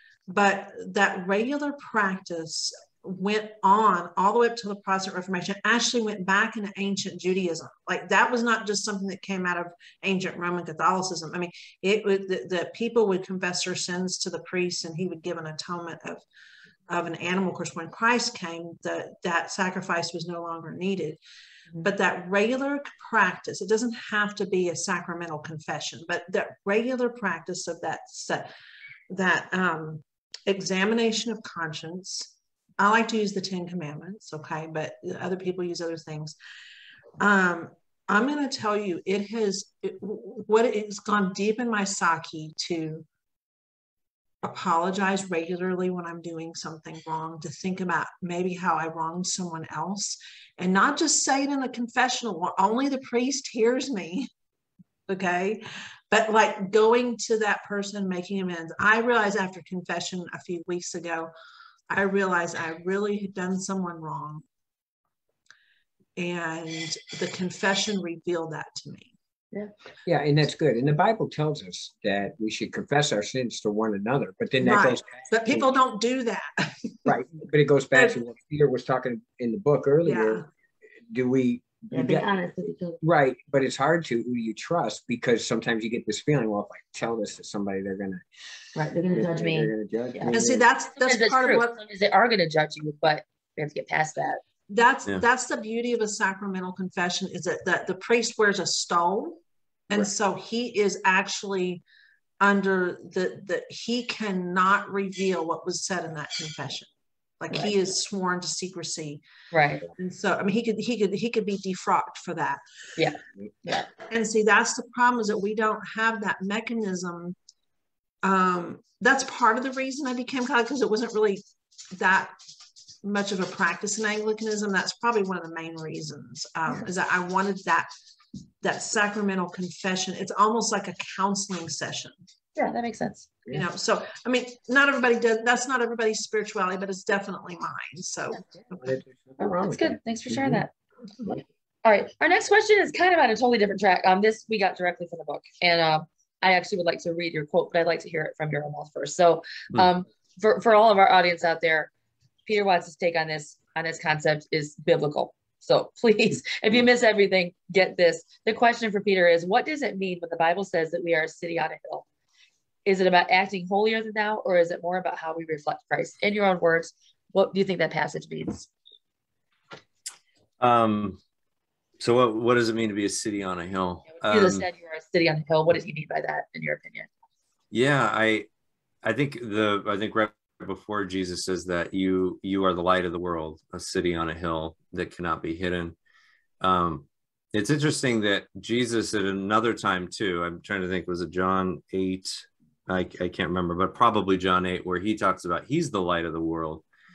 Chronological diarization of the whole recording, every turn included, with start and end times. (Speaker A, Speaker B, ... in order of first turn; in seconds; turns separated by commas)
Speaker A: 0.3-16.2, Speaker A: 16.9-21.2, Speaker A: 21.8-28.5, Speaker A: 29.1-36.4, Speaker A: 37.2-43.1, Speaker A: 44.4-54.3, Speaker A: 55.1-61.3, Speaker A: 61.9-64.4, Speaker A: 66.2-69.1, Speaker B: 70.0-75.7, Speaker A: 74.6-77.1, Speaker B: 77.0-80.4, Speaker A: 80.0-80.4, Speaker B: 81.1-82.3, Speaker C: 81.9-83.0, Speaker B: 83.0-88.2, Speaker C: 88.8-90.4, Speaker B: 89.1-90.7, Speaker A: 90.3-91.8, Speaker C: 91.0-94.4, Speaker A: 94.7-101.8, Speaker A: 102.4-109.2, Speaker C: 109.5-109.9, Speaker A: 110.0-112.6, Speaker C: 113.0-113.9, Speaker A: 114.1-117.4, Speaker A: 118.2-121.4, Speaker A: 121.9-122.3, Speaker A: 123.0-127.9, Speaker A: 128.6-132.2, Speaker C: 132.6-133.3, Speaker A: 133.5-138.9, Speaker B: 138.6-140.6, Speaker C: 139.4-140.7, Speaker C: 141.8-151.9, Speaker C: 152.5-162.1, Speaker C: 162.8-168.7, Speaker D: 170.6-171.2, Speaker D: 172.0-174.7, Speaker C: 174.2-177.1, Speaker D: 177.7-178.5, Speaker D: 179.0-185.9, Speaker D: 186.6-196.8